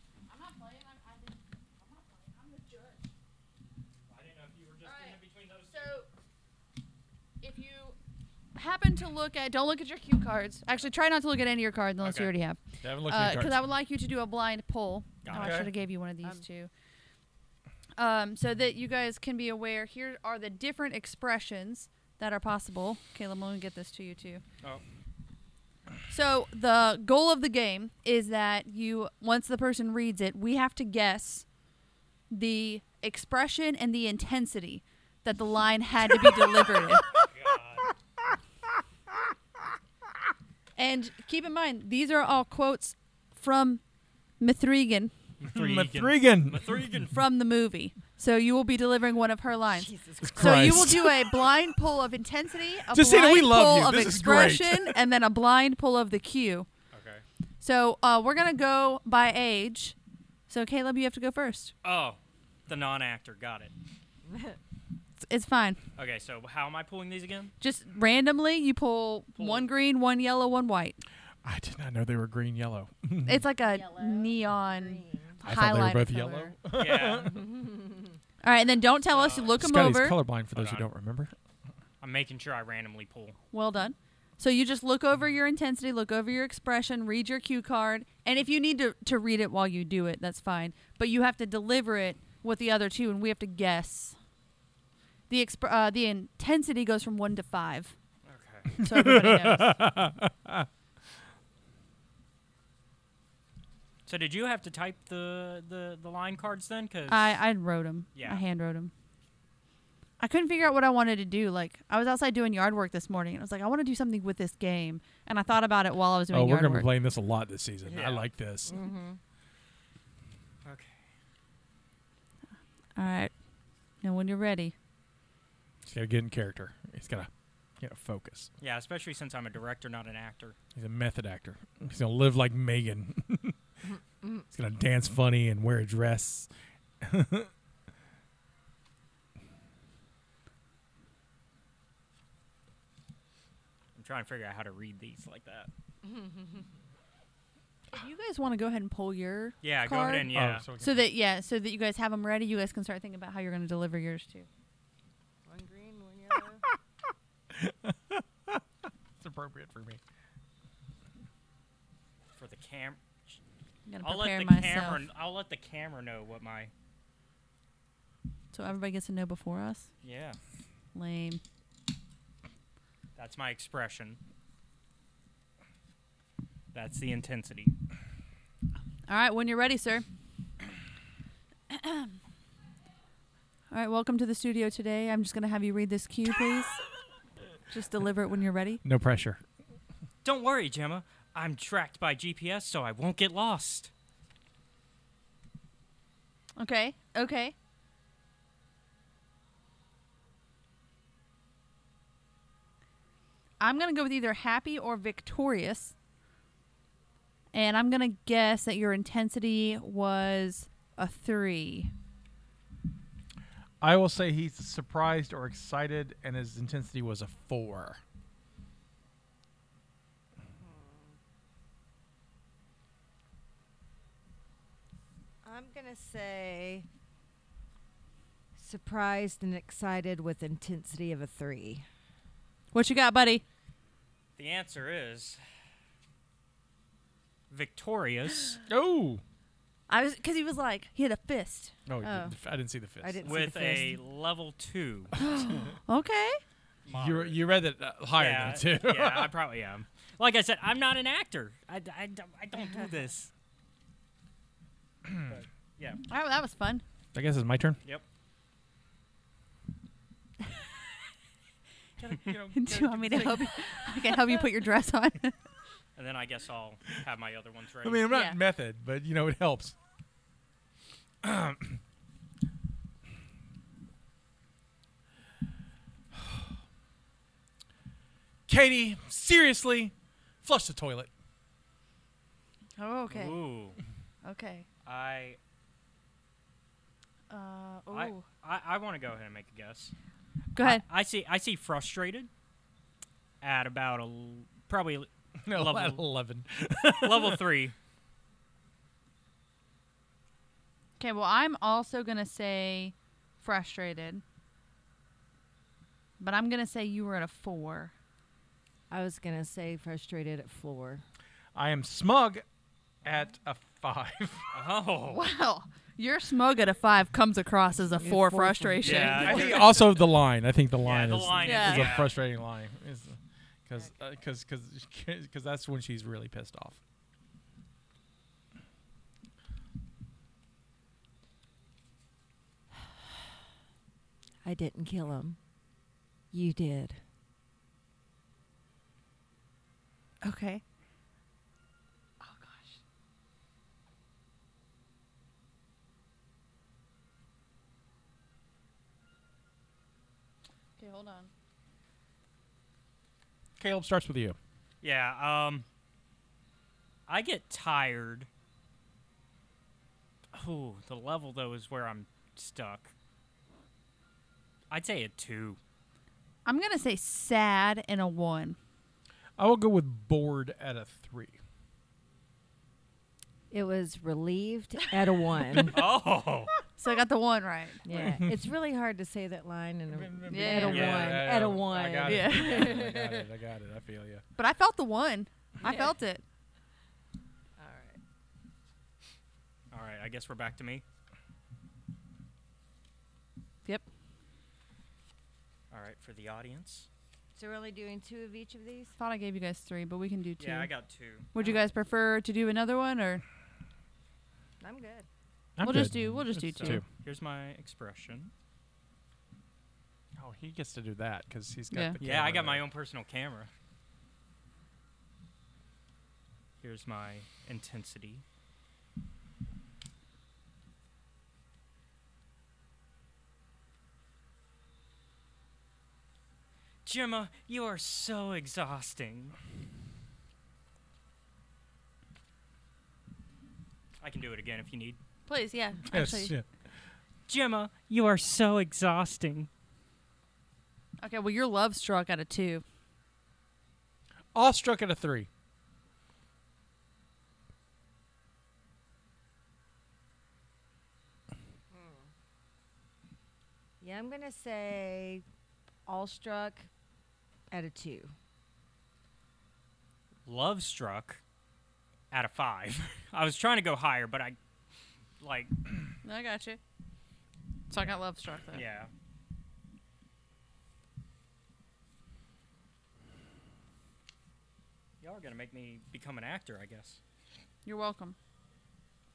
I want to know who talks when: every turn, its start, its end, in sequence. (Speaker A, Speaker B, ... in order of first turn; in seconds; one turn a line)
Speaker A: 0.3-3.1
Speaker B: 4.1-5.9
Speaker A: 4.8-6.1
Speaker A: 7.4-8.0
Speaker A: 8.5-16.7
Speaker B: 12.0-12.3
Speaker C: 12.8-13.6
Speaker B: 15.2-15.6
Speaker C: 15.3-15.7
Speaker A: 18.0-24.4
Speaker A: 26.1-31.4
Speaker A: 32.3-37.1
Speaker B: 37.1-37.9
Speaker A: 40.8-43.8
Speaker A: 44.4-45.1
Speaker B: 45.4-47.2
Speaker C: 45.5-46.9
Speaker A: 47.1-56.7
Speaker D: 49.7-50.9
Speaker C: 50.2-51.1
Speaker C: 52.9-54.9
Speaker B: 56.9-57.2
Speaker A: 57.6-60.0
Speaker A: 60.5-61.7
Speaker B: 61.8-63.7
Speaker D: 64.2-64.6
Speaker A: 65.2-65.8
Speaker B: 66.0-67.5
Speaker A: 67.6-71.0
Speaker B: 69.4-69.7
Speaker C: 71.4-73.4
Speaker A: 73.2-76.5
Speaker D: 73.6-75.4
Speaker C: 75.4-77.4
Speaker B: 76.7-77.4
Speaker D: 77.3-78.2
Speaker A: 78.4-80.2
Speaker B: 79.1-79.6
Speaker C: 79.5-81.3
Speaker B: 80.5-80.9
Speaker B: 82.0-83.3
Speaker A: 83.5-94.2
Speaker A: 95.3-97.9
Speaker B: 98.2-98.7
Speaker C: 98.8-100.7
Speaker A: 98.8-99.8
Speaker B: 104.0-107.4
Speaker A: 107.1-108.9
Speaker B: 108.1-108.4
Speaker A: 110.2-116.9
Speaker C: 116.3-118.8
Speaker B: 117.8-118.3
Speaker D: 118.7-119.2
Speaker B: 120.6-121.1
Speaker A: 123.0-123.3
Speaker A: 124.0-124.7
Speaker C: 125.8-128.5
Speaker B: 128.6-130.6
Speaker C: 130.7-133.6
Speaker D: 133.9-134.4
Speaker C: 134.5-136.5
Speaker C: 137.0-137.5
Speaker B: 143.9-145.7
Speaker D: 146.0-146.7
Speaker A: 147.9-154.5
Speaker B: 149.6-150.7
Speaker C: 150.3-151.1
Speaker D: 155.4-156.6
Speaker C: 157.5-158.6
Speaker C: 159.2-160.0
Speaker B: 162.3-163.4
Speaker A: 163.9-165.0
Speaker B: 164.0-166.7
Speaker A: 168.5-169.9
Speaker B: 170.0-170.4
Speaker A: 170.9-171.4
Speaker B: 173.2-174.2
Speaker B: 176.7-177.7
Speaker A: 179.1-180.0
Speaker A: 181.7-182.1
Speaker A: 183.7-186.8
Speaker A: 187.7-188.8
Speaker C: 188.8-189.4
Speaker B: 190.2-193.9
Speaker A: 196.6-197.5
Speaker A: 203.6-205.9
Speaker A: 207.5-211.9
Speaker C: 213.8-218.0
Speaker D: 220.6-221.1
Speaker D: 225.4-226.8
Speaker D: 228.6-231.8
Speaker A: 232.7-233.4
Speaker B: 234.4-235.4
Speaker B: 237.5-238.6
Speaker C: 238.7-239.2
Speaker A: 239.9-241.7
Speaker C: 241.8-243.3
Speaker D: 242.0-242.3
Speaker D: 243.0-244.0
Speaker B: 243.2-245.1
Speaker D: 245.4-245.7
Speaker A: 245.8-246.4
Speaker B: 246.8-247.4
Speaker C: 246.9-249.3
Speaker B: 248.2-253.3
Speaker D: 252.5-252.9
Speaker C: 255.1-255.3
Speaker B: 255.2-256.0
Speaker A: 256.1-256.8
Speaker C: 257.1-257.8
Speaker C: 262.0-263.8
Speaker A: 262.5-265.3
Speaker B: 265.9-268.1
Speaker C: 267.8-269.7
Speaker A: 268.1-268.4
Speaker C: 271.2-271.8
Speaker C: 278.5-281.1
Speaker A: 282.8-283.4
Speaker B: 283.1-283.8
Speaker A: 284.2-284.6
Speaker B: 284.8-285.4
Speaker A: 287.3-288.2
Speaker B: 287.9-289.9
Speaker A: 290.5-290.8
Speaker B: 290.6-292.3
Speaker B: 293.4-296.0
Speaker C: 295.4-297.4
Speaker B: 297.0-297.7
Speaker A: 301.0-304.2
Speaker A: 306.2-307.9
Speaker D: 308.9-311.0
Speaker C: 311.5-312.4
Speaker C: 313.0-314.5
Speaker B: 314.5-315.2
Speaker A: 315.1-319.6
Speaker D: 318.0-319.5
Speaker B: 318.8-320.1
Speaker C: 319.2-326.8
Speaker B: 320.8-322.1
Speaker A: 321.4-321.9
Speaker D: 334.4-335.4
Speaker D: 336.3-337.0
Speaker A: 340.2-340.6
Speaker A: 342.2-342.8
Speaker A: 350.8-351.3
Speaker C: 353.6-354.4
Speaker B: 354.8-355.6
Speaker B: 357.1-358.3
Speaker B: 360.3-362.9
Speaker B: 364.7-365.6
Speaker A: 366.4-368.6
Speaker C: 369.4-371.4
Speaker D: 373.5-375.8
Speaker B: 375.5-376.5
Speaker A: 376.8-377.8
Speaker D: 377.8-383.3
Speaker C: 377.9-378.4
Speaker C: 379.9-384.2
Speaker A: 380.3-381.0
Speaker B: 380.6-381.4
Speaker A: 382.0-382.7
Speaker A: 384.4-386.2
Speaker D: 385.6-385.9
Speaker D: 387.6-388.0
Speaker B: 389.7-390.8
Speaker B: 395.7-396.9
Speaker D: 397.4-398.9
Speaker A: 399.0-400.7
Speaker B: 400.4-401.3
Speaker A: 401.3-403.2
Speaker D: 401.4-401.7
Speaker D: 404.6-405.1
Speaker C: 405.6-406.8
Speaker A: 405.6-406.8
Speaker B: 406.5-408.3
Speaker C: 410.2-412.6
Speaker A: 411.7-412.0
Speaker B: 412.0-413.5
Speaker B: 416.6-418.2
Speaker B: 426.8-429.4
Speaker B: 434.0-435.0
Speaker A: 435.3-436.3
Speaker C: 435.9-436.4
Speaker B: 437.3-439.5
Speaker A: 441.0-442.6
Speaker C: 444.3-445.3
Speaker D: 451.7-452.1
Speaker D: 453.8-455.2
Speaker D: 455.9-456.7
Speaker D: 457.5-458.1
Speaker B: 460.2-461.2
Speaker B: 462.1-464.4
Speaker B: 465.2-465.5
Speaker A: 466.0-466.6
Speaker A: 467.7-468.6
Speaker B: 468.5-468.9
Speaker B: 475.0-477.0
Speaker A: 477.6-478.1